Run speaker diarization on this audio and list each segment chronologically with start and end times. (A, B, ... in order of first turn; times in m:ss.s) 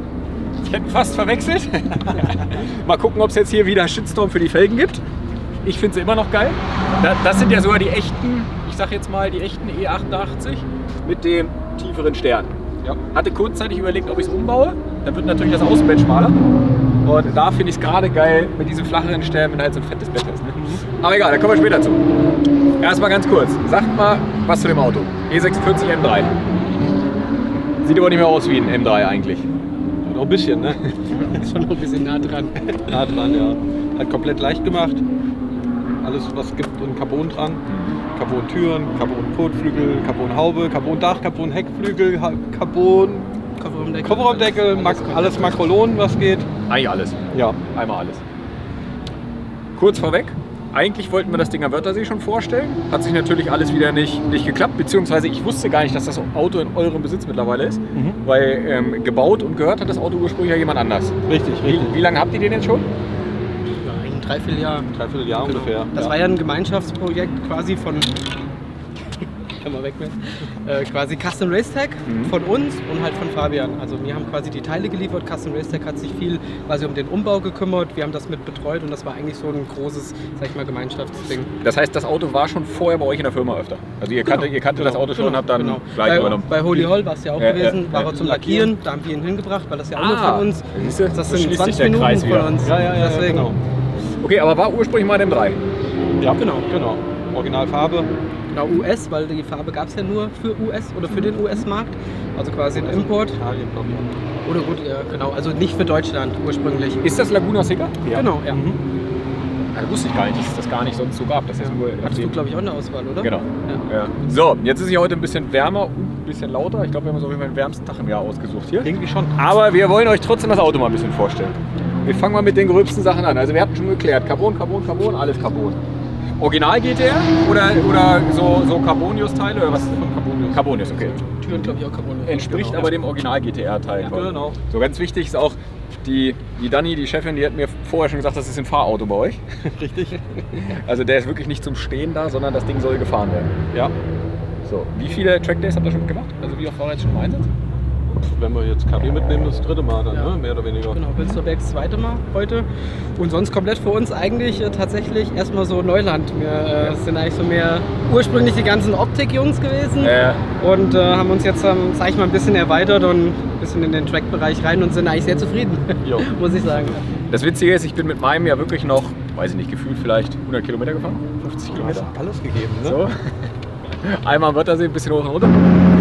0:00.6-0:05.0 A
0:05.6-0:12.5 A
0:13.1-0:16.4 A
0:17.0-0:22.0 A
0:20.6-0:20.8 B
0:22.8-0:26.3 A
0:27.8-0:29.5 A
0:30.0-0:30.9 B
0:31.1-0:32.6 C
0:32.7-0:35.0 B
0:36.0-0:37.6 B
0:37.6-0:38.0 A
0:38.1-0:43.3 B
0:43.6-0:45.7 C
0:44.0-0:46.5 B
0:46.7-0:48.2 A
0:47.3-0:47.6 B
0:49.8-1:02.8 A
0:57.9-0:58.2 B
1:01.3-1:02.0 B
1:03.8-1:08.1 C
1:04.9-1:06.1 B
1:09.6-1:21.5 C
1:12.0-1:12.3 A
1:21.6-1:28.0 A
1:24.3-1:25.2 B
1:25.1-1:33.5 C
1:26.0-1:26.9 B
1:27.9-1:28.7 B
1:29.9-1:32.6 A
1:32.6-1:33.6 B
1:34.2-1:35.6 A
1:36.2-1:38.1 B
1:36.4-1:36.7 C
1:38.5-1:43.4 C
1:42.7-1:44.1 B
1:44.4-1:47.0 C
1:47.0-1:48.0 A
1:48.0-1:48.8 B
1:48.1-1:48.6 C
1:49.7-1:52.4 A
1:51.6-1:53.9 C
1:53.2-2:05.8 A
1:58.8-1:59.4 B
2:06.4-2:19.4 A
2:09.7-2:10.6 B
2:10.8-2:12.9 C
2:14.0-2:14.6 B
2:19.6-2:20.6 B
2:20.6-2:23.5 A
2:24.6-2:27.5 A
2:28.2-2:31.0 B
2:30.9-2:32.7 C
2:33.2-2:47.0 C
2:40.0-2:40.4 A
2:46.0-2:46.4 B
2:47.3-2:52.1 A
2:51.7-2:53.0 B
2:52.8-2:53.2 A
2:53.9-2:55.6 A